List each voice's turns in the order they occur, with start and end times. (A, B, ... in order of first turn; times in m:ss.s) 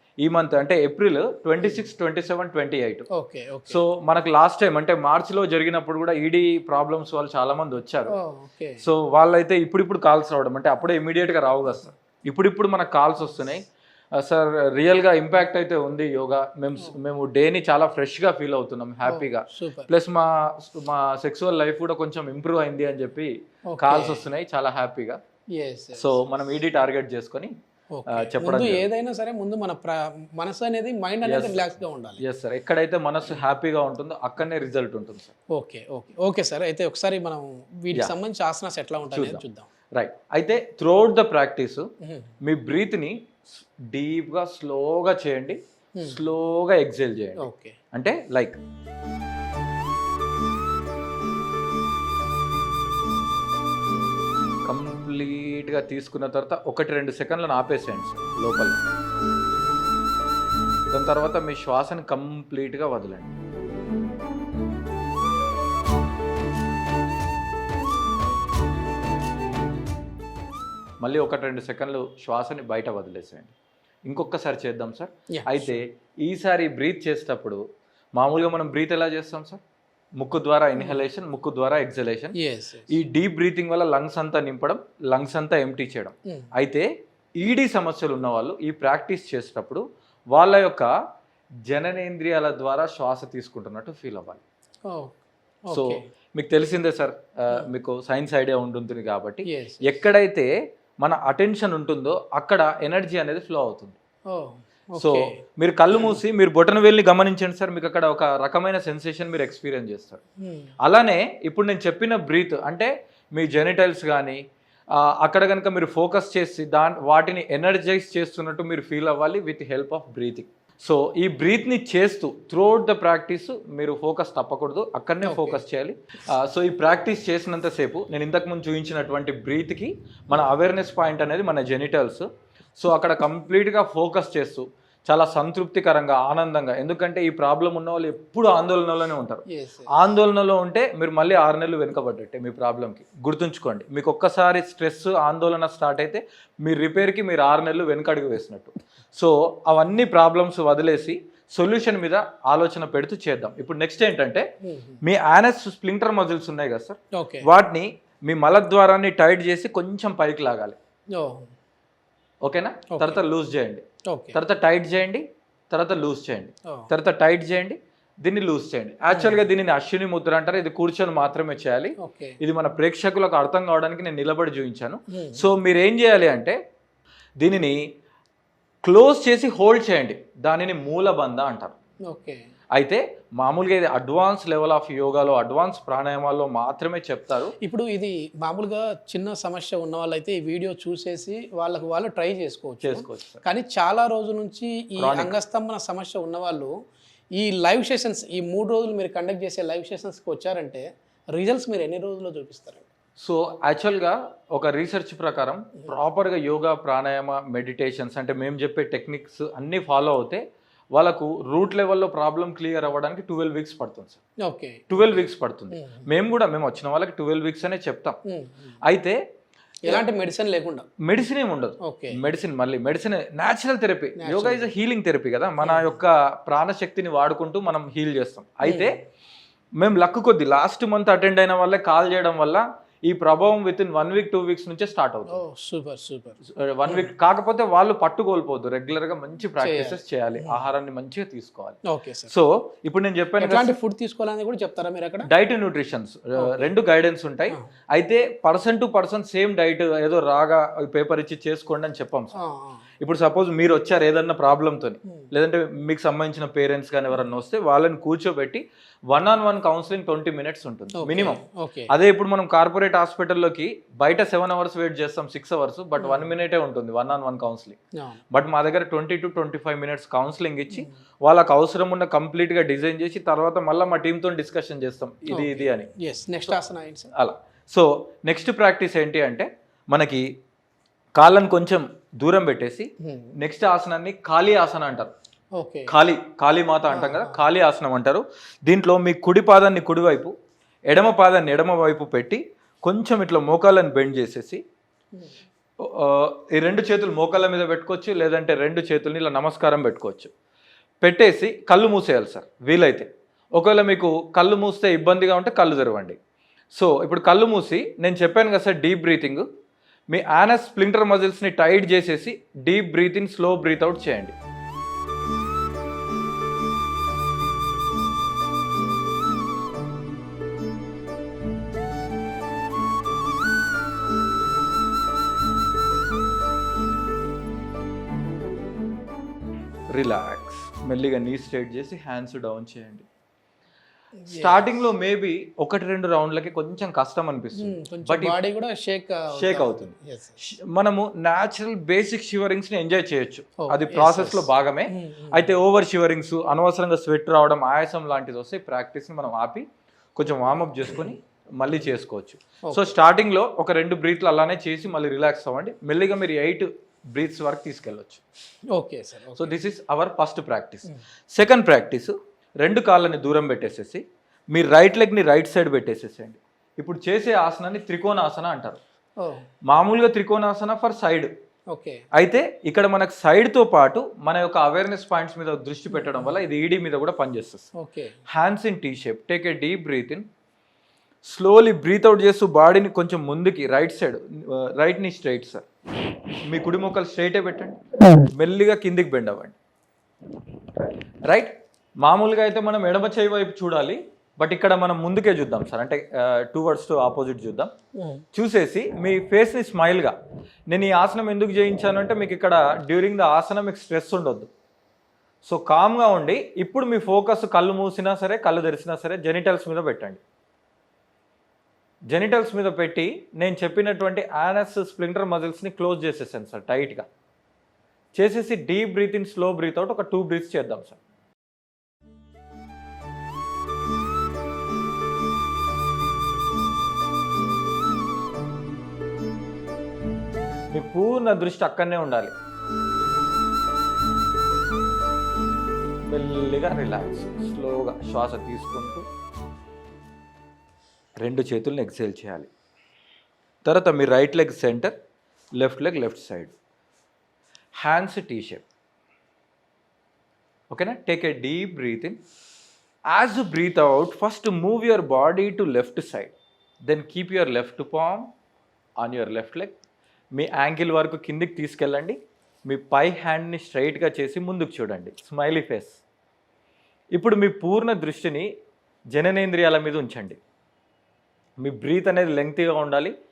0:00.2-0:03.0 A
0:01.6-0:01.8 B
0:03.1-0:03.8 B
0:03.7-0:08.1 A
0:08.1-0:08.8 B
0:08.8-0:13.6 A
0:14.1-0:25.2 A
0:19.0-0:19.9 B
0:23.7-0:24.2 B
0:25.6-0:26.3 B
0:26.0-0:27.5 A
0:27.9-0:32.2 B
0:28.1-0:28.9 A
0:31.2-0:35.3 A
0:35.5-0:39.7 B
0:39.1-0:39.4 A
0:39.9-0:41.8 A
0:42.0-0:42.3 B
0:42.4-0:48.6 A
0:47.4-0:47.8 B
0:54.7-0:58.8 A
1:00.9-1:03.3 A
1:11.0-1:13.5 A
1:14.1-1:17.6 A
1:15.4-1:15.8 B
1:18.2-1:19.6 A
1:20.2-1:22.3 A
1:22.4-1:22.9 B
1:22.9-1:30.9 A
1:31.7-1:34.4 A
1:34.9-1:36.0 B
1:35.7-1:40.5 A
1:39.5-1:40.0 B
1:41.0-1:44.0 A
1:44.3-1:45.4 B
1:45.0-1:50.2 A
1:45.9-1:46.2 B
1:50.4-1:50.7 B
1:50.8-1:54.4 A
1:54.9-2:34.4 A
2:05.2-2:05.6 B
2:19.5-2:19.9 B
2:34.6-2:35.0 B
2:35.0-2:40.8 A
2:37.1-2:37.4 B
2:41.1-2:41.5 B
2:42.4-2:56.6 A
2:42.9-2:43.2 B
2:44.1-2:44.4 B
2:49.1-2:49.4 B
2:52.0-2:52.4 B
2:55.1-2:55.5 B
2:57.4-2:57.8 A
2:58.8-3:01.8 A
3:02.1-3:02.4 B
3:02.7-3:07.5 A
3:07.6-3:16.7 B
3:12.8-3:13.4 A
3:15.0-3:15.4 A
3:17.4-3:20.8 B
3:21.4-3:22.9 B
3:23.2-3:30.4 A
3:30.9-3:34.2 A
3:34.4-3:36.1 B
3:34.9-3:38.2 A
3:38.3-3:38.8 B
3:38.8-3:39.2 A
3:39.8-3:40.8 B
3:41.0-3:48.9 A
3:41.8-3:42.2 B
3:44.2-3:44.7 B
3:45.6-3:46.0 B
3:48.6-3:48.9 B
3:49.8-3:55.4 A
3:55.3-3:57.1 B
3:56.6-4:03.7 A
3:59.6-4:00.6 B
4:01.9-4:02.3 B
4:03.4-4:05.3 B
4:05.2-4:12.3 A
4:12.4-4:12.8 B
4:13.0-4:27.8 A
4:21.0-4:21.9 B
4:26.0-4:26.3 B
4:28.3-4:35.9 A
4:35.3-4:37.1 B
4:37.1-4:40.2 A
4:41.2-4:45.1 A
4:43.0-4:43.3 B
4:45.6-4:45.9 B
4:45.9-4:50.3 A
4:46.9-4:47.4 B
4:50.9-4:54.6 A
4:55.8-5:00.3 A
5:01.0-5:06.2 A
5:06.8-5:09.4 A
5:10.1-5:14.3 A
5:29.9-5:33.1 A
5:34.2-5:34.7 B
5:34.3-5:38.4 A
5:37.6-5:40.4 B
5:39.3-5:49.6 A
5:43.6-5:45.5 B
5:50.2-5:58.2 A
5:58.7-5:59.6 B
5:59.4-6:08.8 A
6:09.2-6:09.4 B
6:09.6-6:11.3 A
6:11.7-6:12.0 B
6:12.1-6:17.7 A
6:15.9-6:16.3 B
6:17.8-6:18.2 B
6:18.3-6:20.2 A
6:21.2-6:25.6 A
6:26.4-6:29.6 A
6:31.3-6:37.7 A
6:38.0-6:38.2 B
6:38.3-6:40.1 A
6:40.7-6:44.5 A
6:45.4-6:50.2 A
6:52.1-6:57.0 A
6:58.1-7:01.0 A
7:10.7-7:12.3 A
7:16.0-7:19.0 A
7:21.2-7:22.5 A
7:23.6-7:24.9 A
7:25.6-7:26.5 A
7:27.8-7:28.6 A
7:30.7-7:32.2 A
7:33.1-7:36.3 A
7:36.9-7:38.3 A
7:39.0-7:39.8 A
7:40.3-7:46.0 A
7:47.1-7:48.5 A
7:49.1-7:50.4 A
7:51.6-7:53.1 A